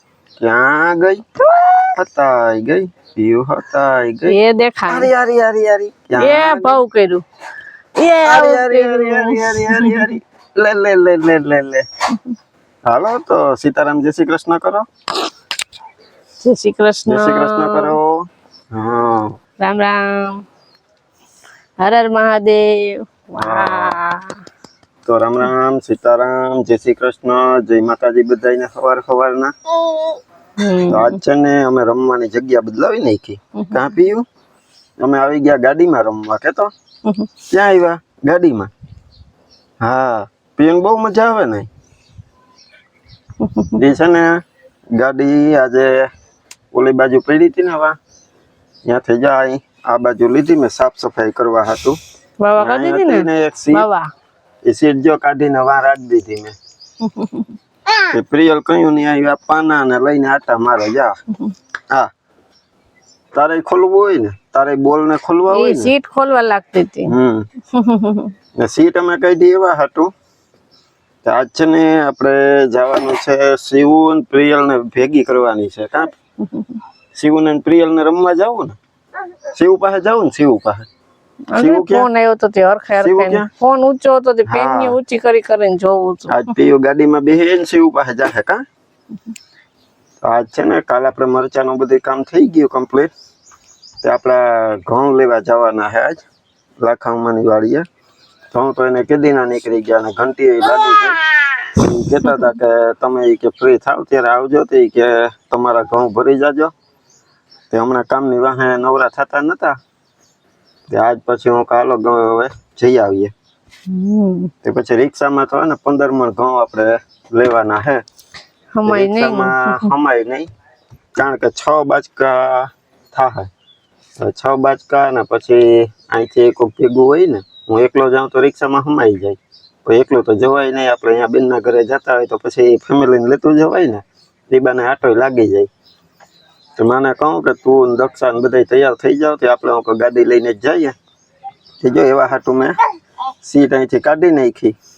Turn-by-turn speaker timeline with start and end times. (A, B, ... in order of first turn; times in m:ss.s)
0:00.4-0:01.2 A
0:01.4-0:01.9 B
0:01.9-0:04.4 A
0:04.2-0:05.1 B
0:04.9-0:06.8 A
0:06.2-0:07.2 B
0:08.0-0:10.0 B
0:08.2-0:11.8 A
0:12.9-0:14.8 A
0:16.4-0:18.0 B
0:17.1-0:18.2 A
0:18.7-0:19.4 A
0:19.6-0:20.4 B
0:21.8-0:24.3 B
0:23.4-0:24.0 A
0:25.0-0:29.5 A
0:30.6-0:31.2 B
0:30.9-0:34.2 A
0:35.0-0:36.7 A
0:37.5-0:38.7 A
0:39.8-0:41.7 A
0:43.4-0:43.8 B
0:43.8-0:44.4 A
0:45.0-0:46.1 A
0:46.7-0:48.0 A
0:48.9-0:52.0 A
0:52.4-0:54.1 B
0:52.6-0:53.9 A
0:54.6-0:56.6 A
0:57.0-0:57.5 B
0:58.1-1:01.1 A
1:03.3-1:05.9 A
1:05.5-1:07.1 B
1:07.1-1:07.5 A
1:07.7-1:08.3 B
1:08.6-1:10.1 A
1:11.2-1:16.1 A
1:17.2-1:18.8 A
1:19.5-1:20.9 A
1:21.5-1:26.5 B
1:21.6-1:22.1 A
1:23.0-1:23.5 A
1:24.4-1:25.0 A
1:26.3-1:28.6 A
1:30.2-1:33.1 A
1:34.0-1:36.2 A
1:36.8-1:37.8 A
1:38.5-1:41.2 A
1:41.7-1:46.7 A
1:47.7-1:49.8 A
1:50.9-1:53.3 A
1:53.9-1:54.5 B
1:54.6-1:58.0 A
1:58.7-1:59.9 B
1:58.8-2:00.5 A
2:01.1-2:03.5 A
2:04.2-2:15.7 A
2:16.8-2:21.0 A
2:21.8-2:22.8 A
2:23.4-2:24.8 A